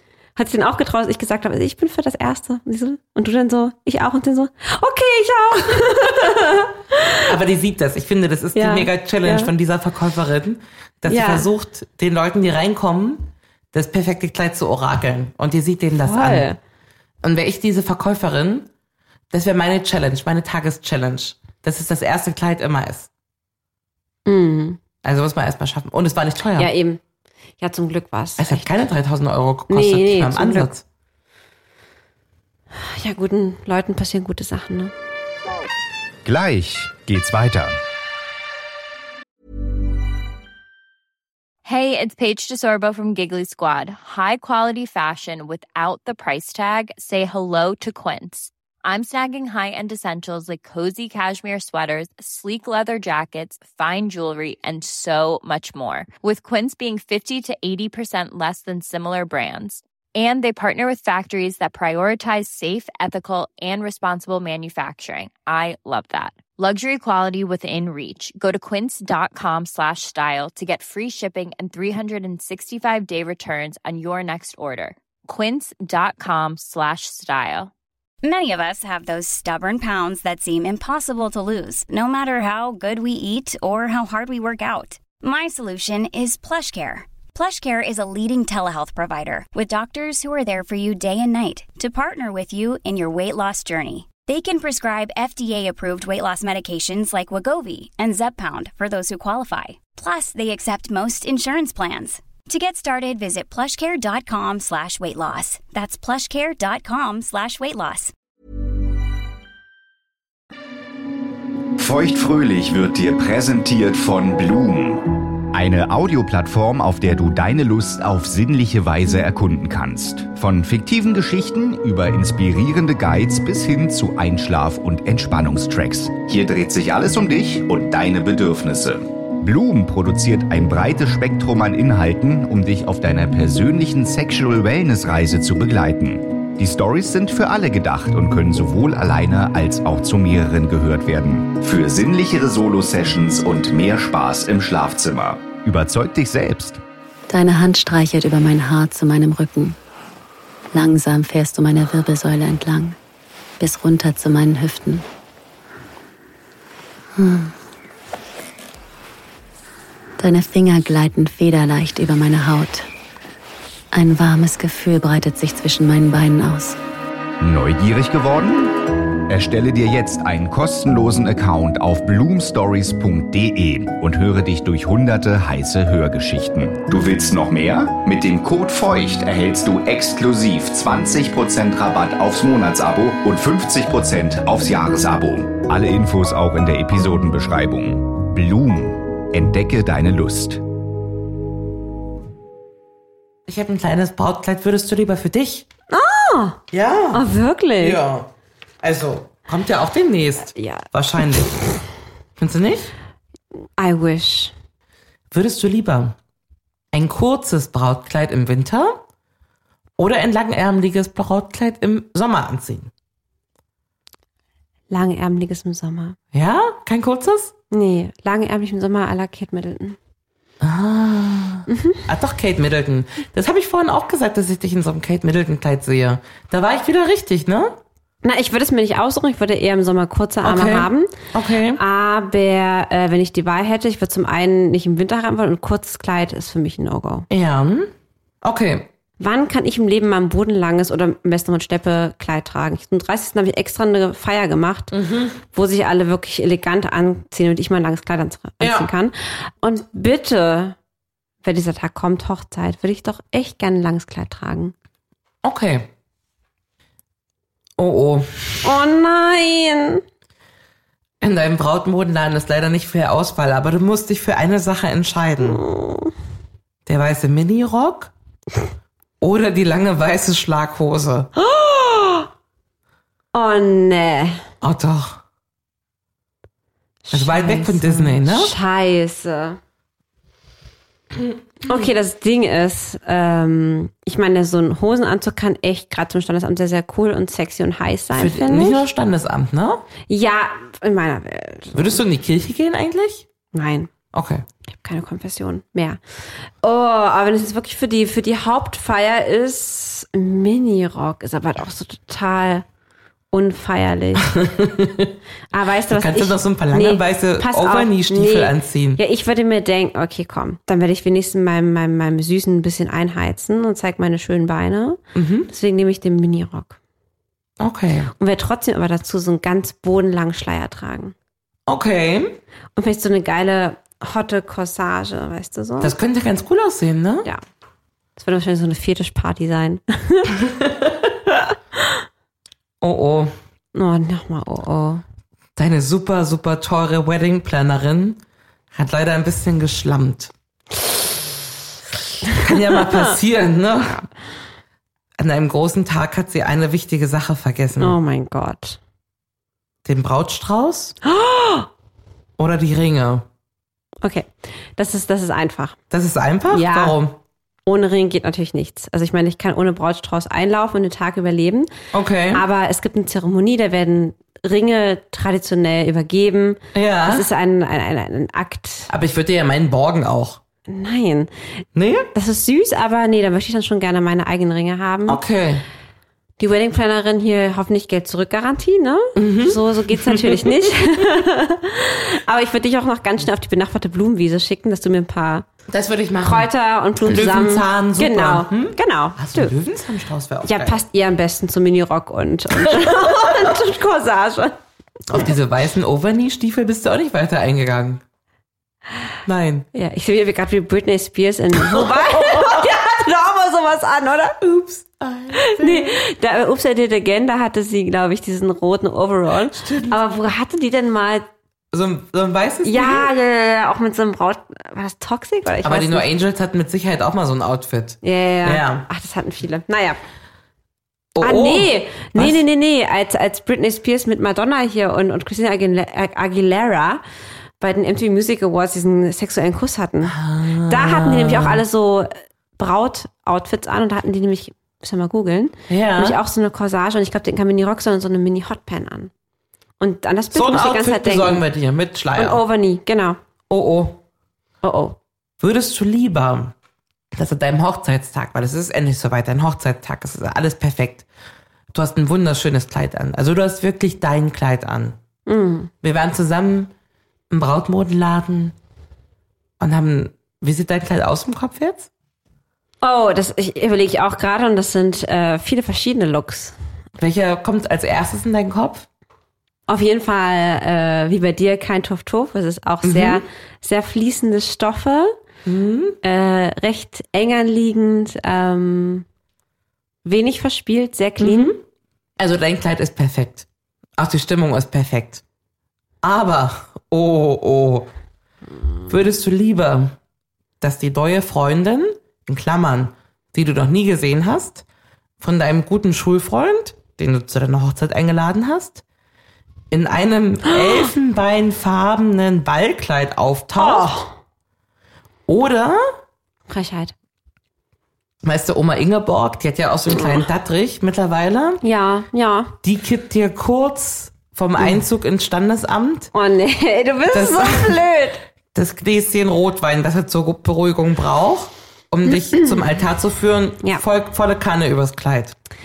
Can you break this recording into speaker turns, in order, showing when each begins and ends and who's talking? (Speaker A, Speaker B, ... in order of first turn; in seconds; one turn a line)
Speaker A: 0.4-7.2
Speaker B: 7.3-16.5
Speaker A: 8.6-9.5
Speaker A: 11.1-11.5
Speaker A: 16.0-16.6
Speaker B: 17.2-18.7
Speaker B: 19.3-23.1
Speaker A: 24.3-24.8
Speaker B: 25.0-26.7
Speaker A: 26.6-27.0
Speaker A: 27.6-28.7
Speaker B: 28.4-30.8
Speaker A: 29.7-30.7
Speaker A: 32.7-34.9
Speaker C: 36.2-37.8
Speaker D: 41.6-77.7
Speaker E: 78.2-108.1
Speaker C: 111.8-146.8
Speaker F: 147.3-149.8
Speaker F: 150.7-153.0
Speaker F: 153.6-155.1
Speaker F: 157.2-157.5
Speaker F: 160.2-162.9
Speaker F: 163.9-166.8
Speaker C: 167.4-168.8
Speaker C: 169.3-190.6
Speaker B: 193.5-195.7
Speaker A: 195.9-196.6
Speaker B: 196.7-197.2
Speaker A: 197.1-198.0
Speaker B: 197.8-198.3
Speaker B: 198.8-201.6
Speaker A: 200.6-200.9
Speaker B: 202.4-202.9
Speaker A: 203.8-204.5
Speaker B: 205.3-206.2
Speaker B: 206.9-209.0
Speaker B: 210.0-212.9
Speaker A: 214.9-216.2
Speaker B: 216.3-217.5
Speaker A: 217.7-220.0
Speaker B: 220.6-227.8
Speaker A: 221.7-222.0
Speaker A: 228.2-231.1
Speaker B: 230.4-231.8
Speaker A: 231.8-237.3
Speaker B: 237.3-237.9
Speaker B: 238.4-238.9
Speaker A: 239.2-244.9
Speaker B: 244.9-245.4
Speaker A: 245.5-250.8
Speaker B: 248.6-248.9
Speaker A: 251.4-254.7
Speaker B: 255.4-255.9
Speaker B: 257.8-258.6
Speaker A: 258.6-260.0
Speaker B: 261.2-265.6
Speaker A: 265.4-266.1
Speaker B: 266.9-268.1
Speaker B: 269.2-271.3
Speaker A: 271.4-272.3
Speaker A: 273.3-274.4
Speaker B: 274.6-275.2
Speaker A: 277.1-279.6
Speaker B: 277.1-278.5
Speaker B: 281.2-281.8
Speaker A: 281.6-288.8
Speaker B: 288.1-289.9
Speaker A: 290.1-292.0
Speaker B: 291.7-293.3
Speaker A: 293.5-293.9
Speaker B: 294.1-294.4
Speaker A: 294.7-296.0
Speaker A: 296.6-302.6
Speaker A: 303.3-304.3
Speaker B: 304.2-305.1
Speaker A: 305.5-316.8
Speaker B: 305.9-309.0
Speaker B: 315.1-315.5
Speaker B: 317.6-318.1
Speaker A: 318.2-321.1
Speaker B: 321.7-322.4
Speaker A: 322.8-325.9
Speaker B: 325.8-327.3
Speaker A: 328.2-330.3
Speaker B: 330.5-330.9
Speaker B: 332.8-333.3
Speaker A: 333.7-335.0
Speaker B: 335.6-338.2
Speaker B: 338.7-340.3
Speaker B: 342.2-344.1
Speaker B: 345.2-348.0
Speaker A: 347.8-348.8
Speaker B: 349.9-350.9
Speaker A: 351.1-351.7
Speaker B: 352.4-353.2
Speaker A: 354.0-355.8
Speaker B: 355.9-357.2
Speaker A: 356.5-357.0
Speaker A: 357.7-361.7
Speaker B: 361.9-362.4
Speaker A: 362.3-368.9
Speaker B: 366.7-367.3
Speaker B: 368.9-370.4
Speaker A: 370.7-371.3
Speaker B: 371.8-372.1
Speaker A: 372.1-375.2
Speaker B: 375.1-375.6
Speaker A: 376.4-385.5
Speaker B: 379.2-380.5
Speaker B: 385.7-386.5
Speaker A: 386.2-389.5
Speaker B: 387.0-390.8
Speaker A: 390.4-394.6
Speaker B: 392.6-393.5
Speaker B: 395.1-398.0
Speaker B: 399.3-399.7
Speaker A: 399.7-404.4
Speaker B: 401.8-402.6
Speaker B: 404.4-406.0
Speaker A: 405.4-411.3
Speaker B: 409.5-410.0
Speaker B: 411.7-413.1
Speaker A: 412.6-416.1
Speaker B: 415.6-418.9
Speaker A: 418.0-420.0
Speaker B: 421.2-422.4
Speaker A: 421.2-427.0
Speaker A: 427.6-430.1
Speaker B: 430.1-431.6
Speaker A: 430.7-439.1
Speaker B: 435.7-436.2
Speaker A: 439.8-441.4
Speaker B: 440.3-442.4
Speaker A: 442.1-443.2
Speaker B: 443.5-444.0
Speaker A: 444.6-445.0
Speaker B: 445.4-446.5
Speaker B: 447.1-451.1
Speaker B: 451.7-455.0
Speaker A: 455.3-455.7
Speaker B: 455.8-456.7
Speaker B: 457.3-458.5
Speaker B: 459.6-461.9
Speaker A: 462.8-466.6
Speaker B: 467.0-468.9
Speaker A: 469.7-475.2
Speaker B: 472.8-473.2
Speaker B: 475.5-476.0
Speaker A: 476.0-479.1
Speaker A: 480.0-481.5
Speaker B: 481.2-481.6
Speaker B: 482.2-483.5
Speaker B: 484.0-485.2
Speaker B: 486.0-487.9
Speaker B: 488.9-490.0
Speaker B: 490.6-494.6
Speaker B: 495.2-498.8
Speaker B: 499.7-503.9
Speaker A: 503.6-504.1
Speaker B: 505.3-505.8
Speaker A: 506.5-506.9
Speaker B: 508.2-511.6
Speaker A: 509.9-510.2
Speaker A: 511.6-512.6
Speaker B: 512.6-516.1
Speaker A: 516.1-518.2
Speaker B: 517.1-517.8
Speaker B: 518.5-525.3
Speaker A: 522.1-522.6